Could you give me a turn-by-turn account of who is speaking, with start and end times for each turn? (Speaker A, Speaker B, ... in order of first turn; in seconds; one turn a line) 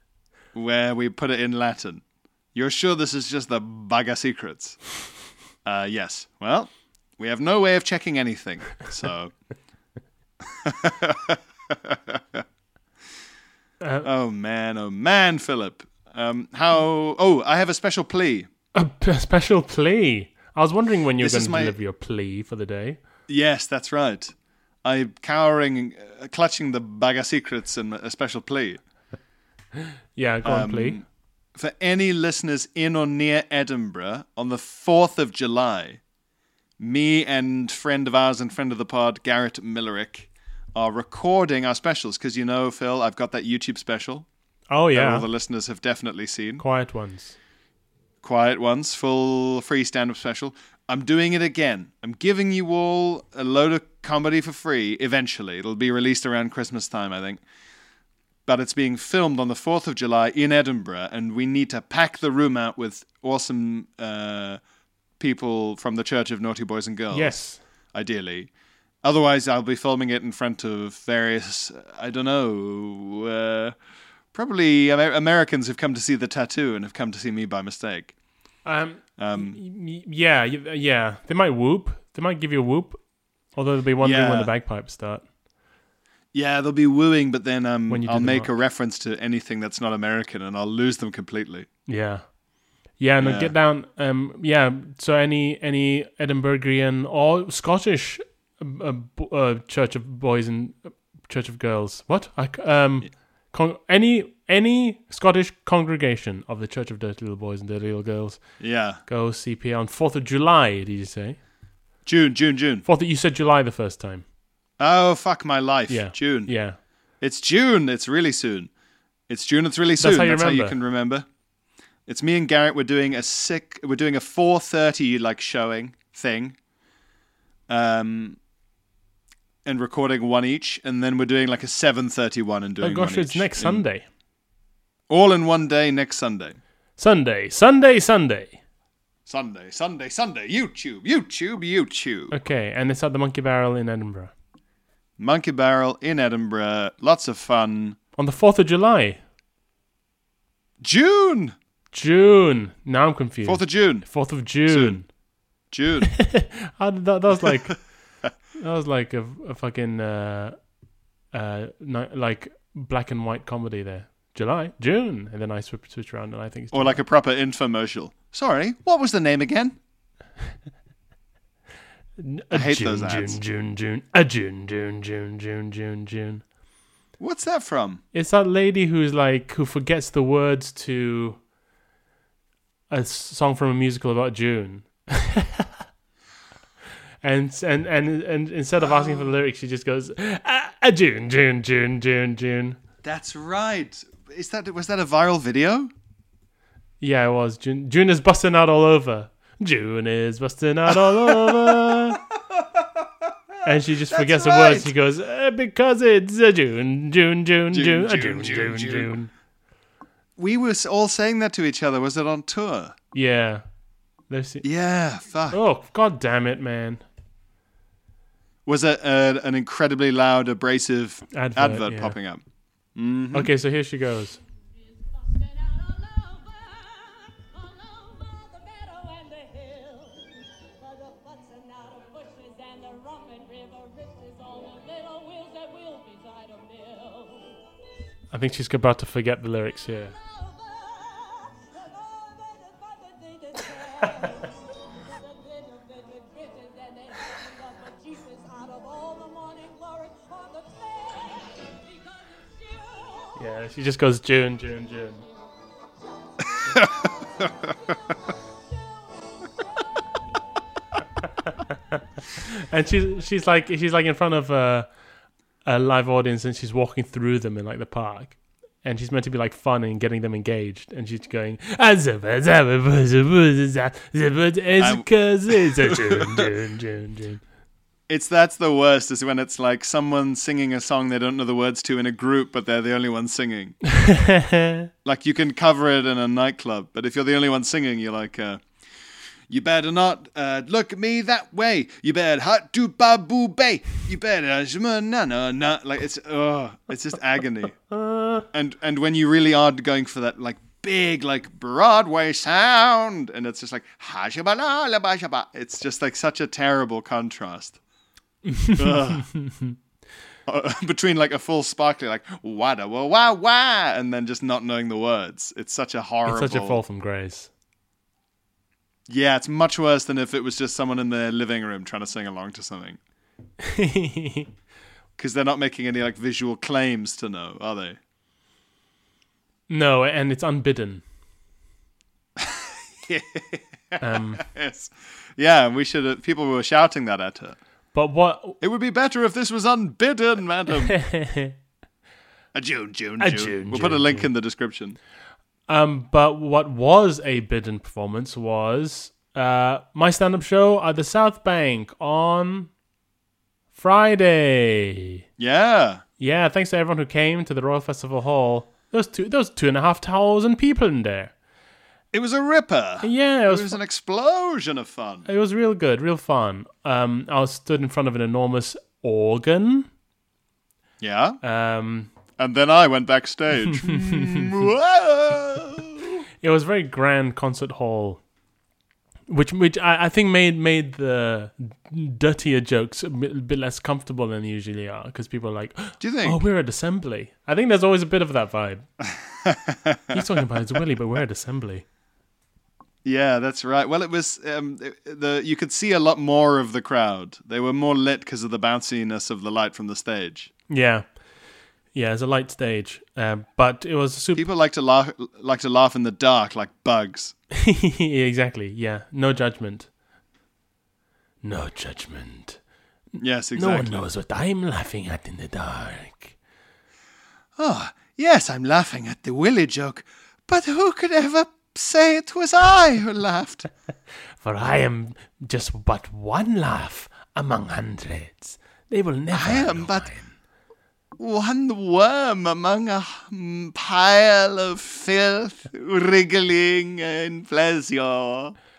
Speaker A: 0.5-4.9
Speaker A: 5.6-9.3
Speaker A: 10.6-12.4
Speaker B: 13.8-14.1
Speaker A: 14.0-18.5
Speaker B: 18.7-23.0
Speaker A: 21.2-21.8
Speaker A: 23.3-28.8
Speaker B: 30.1-31.0
Speaker A: 30.4-36.0
Speaker A: 36.8-44.3
Speaker B: 44.7-45.3
Speaker A: 44.9-46.6
Speaker B: 46.6-47.4
Speaker A: 48.2-57.4
Speaker A: 58.5-64.6
Speaker A: 65.2-68.5
Speaker B: 67.1-67.6
Speaker A: 69.0-73.8
Speaker A: 74.3-78.1
Speaker B: 78.7-83.0
Speaker A: 79.2-79.6
Speaker B: 83.5-85.2
Speaker A: 84.0-84.5
Speaker A: 86.3-91.7
Speaker B: 87.9-88.5
Speaker B: 91.9-92.3
Speaker B: 93.0-111.4
Speaker A: 93.2-93.5
Speaker A: 108.6-109.0
Speaker A: 112.0-112.9
Speaker B: 112.8-114.2
Speaker A: 114.8-116.5
Speaker B: 115.9-116.8
Speaker A: 117.2-118.7
Speaker A: 119.3-121.3
Speaker B: 120.0-120.8
Speaker A: 122.1-126.6
Speaker A: 127.7-128.4
Speaker A: 129.7-133.8
Speaker B: 132.8-134.1
Speaker A: 135.1-136.6
Speaker B: 137.0-138.6
Speaker A: 139.3-142.3
Speaker B: 142.3-144.3
Speaker A: 145.2-148.0
Speaker B: 148.2-149.2
Speaker A: 150.8-151.6
Speaker B: 151.9-155.1
Speaker A: 153.4-155.0
Speaker A: 155.7-156.2
Speaker B: 156.2-160.6
Speaker B: 161.3-167.0
Speaker A: 166.7-169.8
Speaker B: 172.2-176.4
Speaker A: 172.5-173.4
Speaker A: 177.2-178.0
Speaker B: 178.1-181.4
Speaker B: 182.9-185.7
Speaker B: 187.2-192.8
Speaker A: 188.8-189.3
Speaker A: 193.0-195.9
Speaker B: 197.0-202.2
Speaker A: 200.9-202.6
Speaker B: 203.6-209.3
Speaker A: 204.1-204.9
Speaker A: 207.7-209.1
Speaker A: 210.4-212.9
Speaker B: 213.1-213.7
Speaker B: 214.3-214.7
Speaker A: 214.6-215.6
Speaker B: 215.5-217.0
Speaker A: 218.7-222.4
Speaker B: 221.3-222.2
Speaker A: 222.9-223.5
Speaker B: 223.3-224.4
Speaker C: 224.8-237.6
Speaker B: 238.3-240.1
Speaker C: 240.0-253.4
Speaker B: 253.4-255.2
Speaker C: 255.0-260.2
Speaker A: 256.7-257.5
Speaker B: 262.5-264.9
Speaker B: 265.6-277.4
Speaker A: 274.8-276.5
Speaker A: 278.1-283.8
Speaker B: 284.0-284.9
Speaker A: 285.0-288.6
Speaker A: 289.5-297.8
Speaker B: 297.9-298.4
Speaker A: 298.5-307.8
Speaker B: 308.5-309.8
Speaker A: 308.8-309.3
Speaker A: 310.5-316.8
Speaker B: 316.3-317.5
Speaker A: 319.1-323.0
Speaker B: 323.6-324.5
Speaker A: 325.2-328.0
Speaker B: 329.7-331.0
Speaker A: 332.4-337.6
Speaker B: 334.0-334.4
Speaker B: 337.9-338.6
Speaker A: 338.6-341.0
Speaker B: 340.9-341.6
Speaker A: 342.5-345.0
Speaker B: 343.2-344.3
Speaker B: 345.7-352.7
Speaker B: 353.8-355.2
Speaker A: 355.4-356.0
Speaker B: 356.2-361.3
Speaker A: 362.1-365.3
Speaker B: 363.0-363.8
Speaker B: 365.3-369.9
Speaker A: 371.0-371.4
Speaker B: 371.4-372.1
Speaker A: 372.4-376.1
Speaker B: 373.8-374.5
Speaker B: 376.4-378.2
Speaker B: 379.3-388.9
Speaker A: 386.0-386.4
Speaker A: 389.4-390.5
Speaker B: 390.1-391.9
Speaker A: 393.0-400.5
Speaker B: 400.7-401.2
Speaker B: 401.9-404.5
Speaker A: 404.4-407.4
Speaker B: 407.5-409.9
Speaker B: 411.4-412.6
Speaker A: 413.2-414.1
Speaker B: 413.6-416.4
Speaker A: 417.6-423.7
Speaker B: 424.4-430.3
Speaker A: 429.3-430.1
Speaker A: 431.2-438.6